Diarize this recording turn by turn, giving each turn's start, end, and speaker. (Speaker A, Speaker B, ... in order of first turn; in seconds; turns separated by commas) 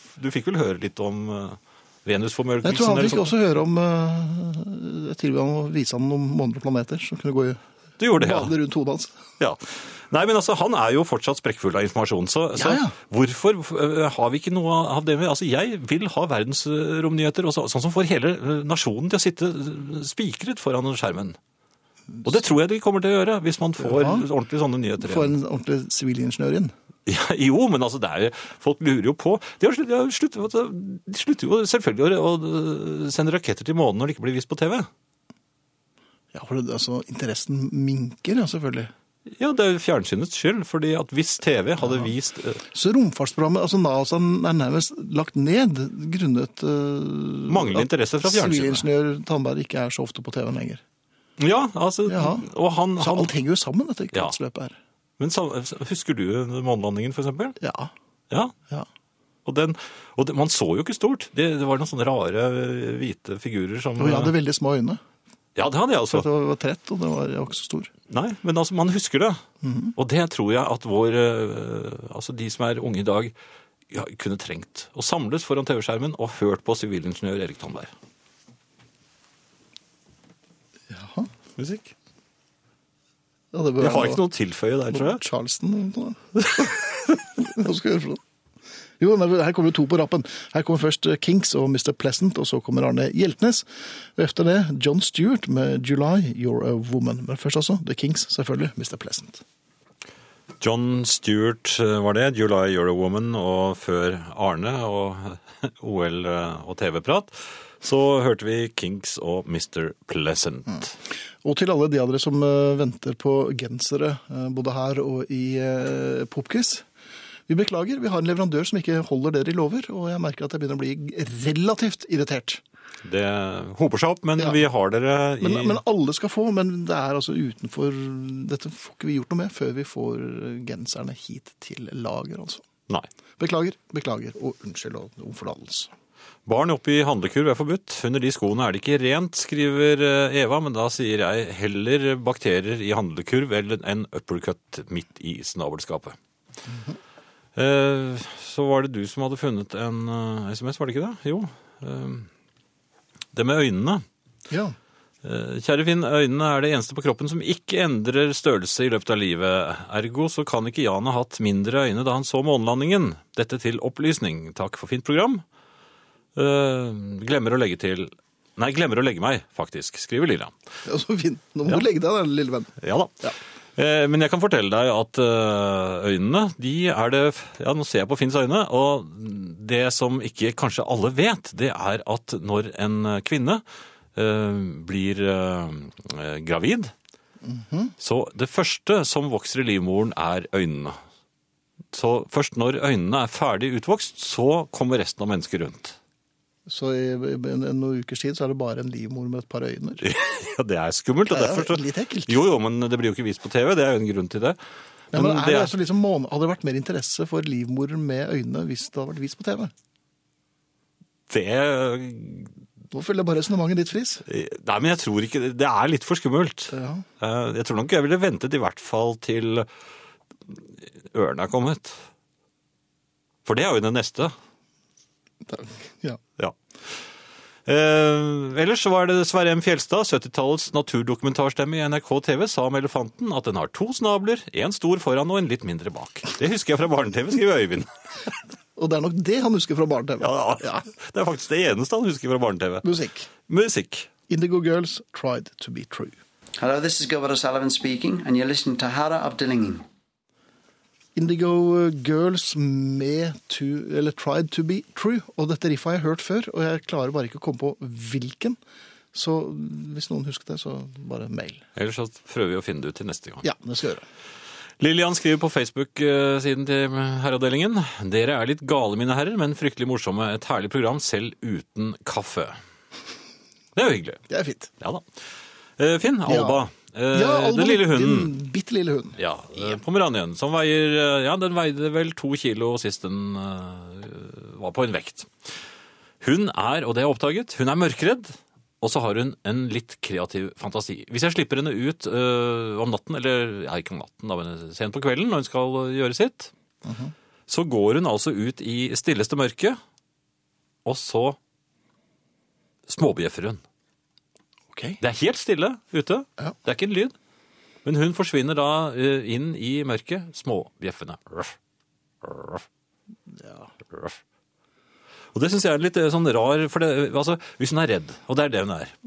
Speaker A: 0.1-3.3, Speaker B: 2.6-7.6, Speaker A: 8.0-8.5, Speaker B: 8.2-9.2, Speaker A: 9.4-21.4, Speaker B: 12.6-12.9, Speaker A: 22.2-25.3, Speaker B: 23.8-24.2, Speaker B: 25.0-26.7, Speaker A: 27.1-34.9, Speaker B: 36.3-38.9, Speaker A: 39.3-42.6, Speaker B: 41.8-42.1, Speaker B: 42.6-50.8, Speaker A: 47.5-48.9, Speaker A: 51.4-53.3, Speaker B: 52.1-52.5, Speaker B: 53.0-54.8, Speaker A: 55.2-57.6, Speaker B: 57.6-57.9, Speaker A: 59.5-64.3, Speaker B: 64.0-65.0, Speaker A: 65.5-66.3, Speaker B: 66.1-67.9, Speaker A: 68.1-69.4, Speaker B: 69.6-69.9, Speaker A: 70.0-73.3, Speaker A: 73.9-77.9, Speaker B: 80.9-81.3, Speaker A: 81.6-81.9, Speaker B: 83.5-84.2, Speaker A: 83.8-85.2, Speaker B: 84.9-88.2, Speaker B: 89.0-99.4, Speaker A: 100.6-110.9, Speaker B: 111.4-116.9, Speaker B: 117.5-122.6, Speaker A: 123.0-125.8, Speaker B: 125.4-132.7, Speaker B: 133.4-135.9, Speaker A: 136.4-146.2, Speaker B: 146.7-147.0, Speaker A: 147.6-152.3, Speaker A: 153.3-154.0, Speaker B: 154.5-154.8, Speaker A: 155.2-165.4, Speaker A: 166.3-170.5, Speaker B: 170.8-173.3, Speaker A: 172.8-183.6, Speaker A: 184.2-186.9, Speaker B: 187.4-187.9, Speaker A: 188.0-190.9, Speaker A: 191.9-196.0, Speaker B: 196.7-200.0, Speaker A: 200.0-204.6, Speaker B: 201.3-202.4, Speaker A: 205.1-205.8, Speaker B: 205.1-209.7, Speaker A: 211.3-212.5, Speaker B: 212.9-214.2, Speaker A: 214.3-219.7, Speaker B: 216.7-217.0, Speaker A: 221.1-222.0, Speaker A: 223.4-224.3, Speaker B: 225.4-226.2, Speaker A: 227.7-238.3, Speaker B: 238.8-240.8, Speaker A: 240.2-242.8, Speaker B: 242.8-243.3, Speaker A: 243.4-244.1, Speaker B: 244.3-246.2, Speaker C: 246.6-249.8, Speaker B: 251.1-258.6, Speaker B: 259.1-261.6, Speaker A: 261.8-263.4, Speaker B: 263.4-264.0, Speaker A: 264.8-272.6, Speaker A: 273.8-274.2, Speaker B: 274.3-274.7, Speaker A: 274.8-275.0, Speaker A: 275.8-278.3, Speaker B: 276.2-279.2, Speaker A: 279.2-285.3, Speaker A: 286.2-296.5, Speaker B: 296.8-297.1, Speaker A: 297.5-299.8, Speaker A: 300.8-301.4, Speaker A: 302.9-303.6, Speaker B: 304.7-305.0, Speaker A: 305.0-307.1, Speaker A: 307.8-311.6, Speaker A: 312.2-312.6, Speaker B: 313.3-313.7, Speaker A: 313.9-314.2, Speaker A: 315.3-318.9